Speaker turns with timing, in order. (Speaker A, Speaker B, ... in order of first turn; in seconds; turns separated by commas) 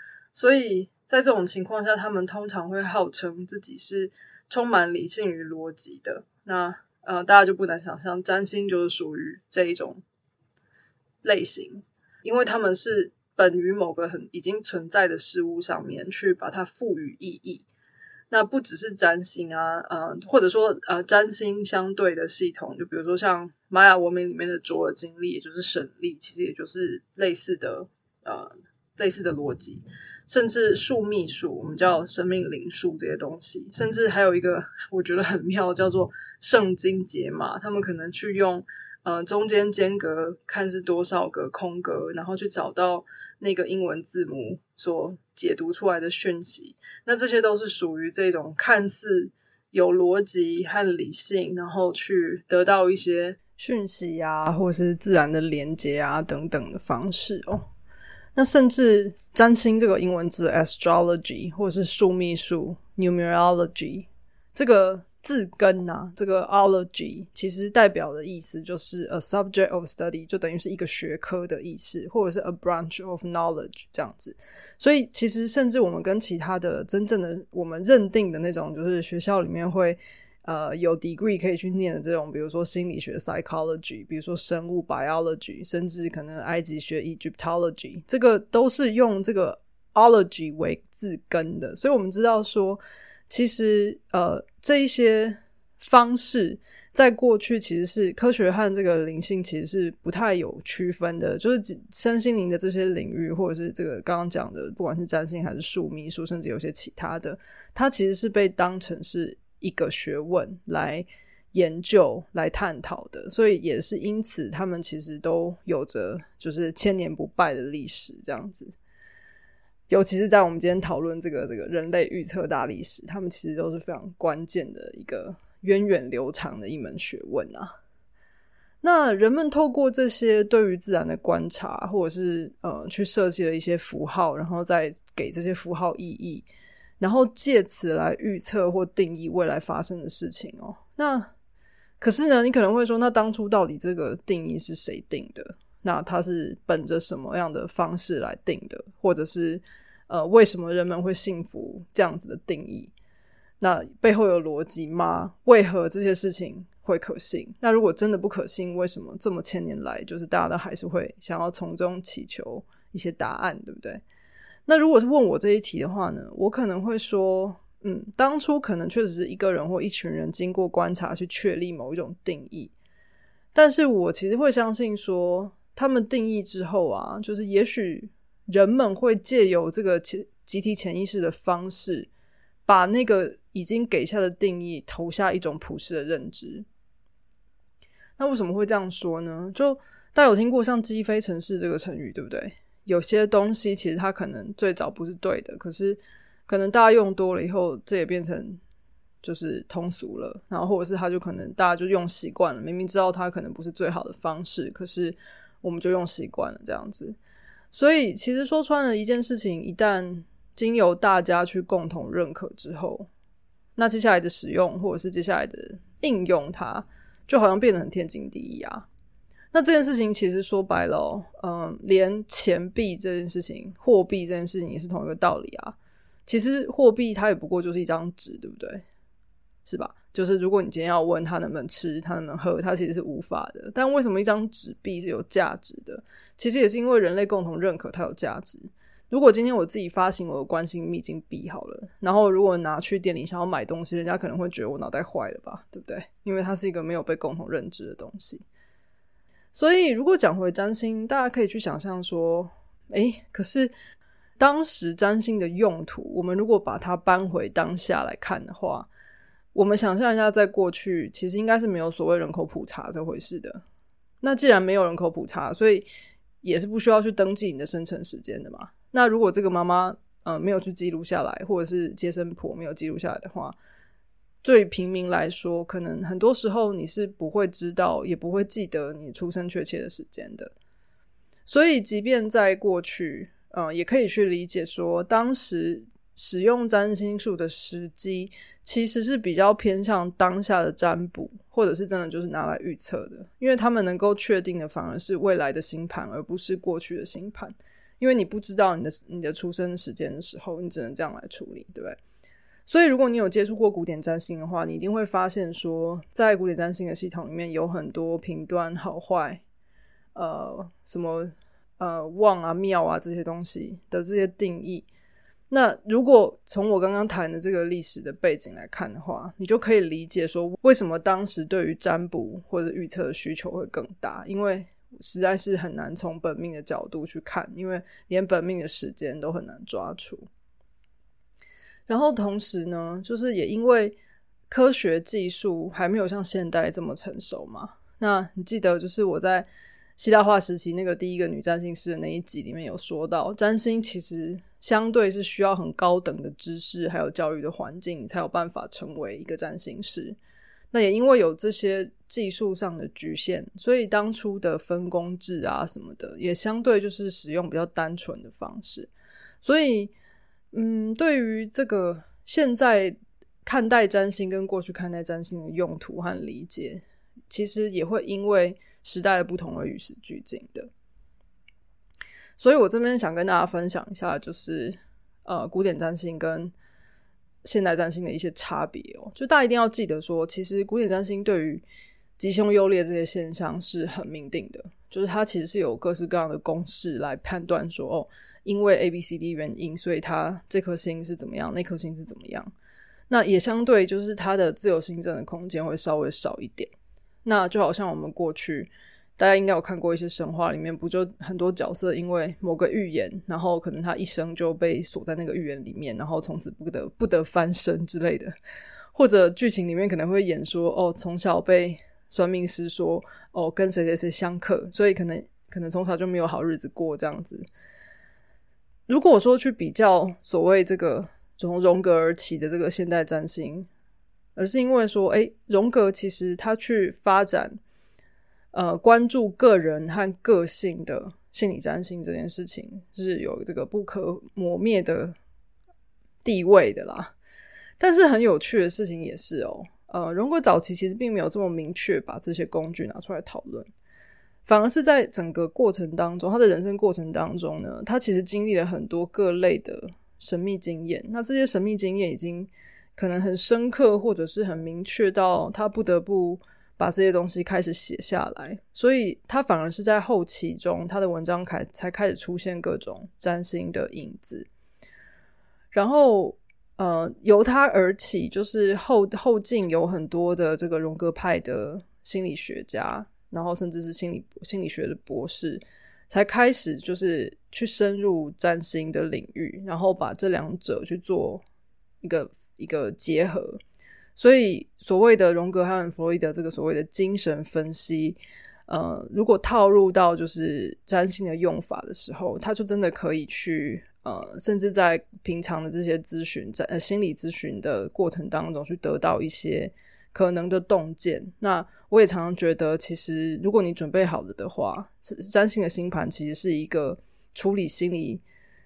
Speaker A: 0.3-10.0, Speaker A: 11.2-17.7, Speaker A: 18.3-57.7, Speaker A: 58.4-118.7, Speaker A: 119.9-127.7, Speaker A: 128.8-136.5, Speaker A: 137.0-141.3, Speaker A: 142.0-152.9, Speaker A: 153.6-164.0, Speaker A: 164.7-172.7, Speaker A: 173.6-182.1, Speaker A: 182.7-186.7, Speaker A: 188.2-198.6, Speaker A: 199.2-207.2, Speaker A: 207.7-213.1, Speaker A: 213.8-218.9, Speaker A: 219.5-225.8, Speaker A: 226.3-228.8, Speaker A: 229.7-248.4, Speaker A: 249.5-253.7, Speaker A: 254.4-258.9, Speaker A: 259.6-263.6, Speaker A: 264.2-265.9, Speaker A: 266.4-273.6, Speaker A: 274.4-280.5, Speaker A: 281.5-302.0, Speaker A: 302.7-309.4, Speaker A: 310.1-314.9, Speaker A: 315.5-330.3, Speaker A: 331.9-334.0, Speaker A: 334.5-350.2, Speaker A: 350.7-358.9, Speaker A: 359.4-359.9, Speaker A: 360.5-370.7, Speaker A: 372.4-376.5, Speaker A: 377.4-381.6, Speaker A: 382.2-392.5, Speaker A: 393.1-396.7, Speaker A: 397.2-408.3, Speaker A: 408.9-417.5, Speaker A: 418.9-423.7, Speaker A: 424.4-427.6, Speaker A: 428.5-435.2, Speaker A: 436.2-437.1, Speaker A: 437.8-443.7, Speaker A: 444.4-464.5, Speaker A: 465.7-481.4, Speaker A: 482.0-483.6, Speaker A: 484.2-508.2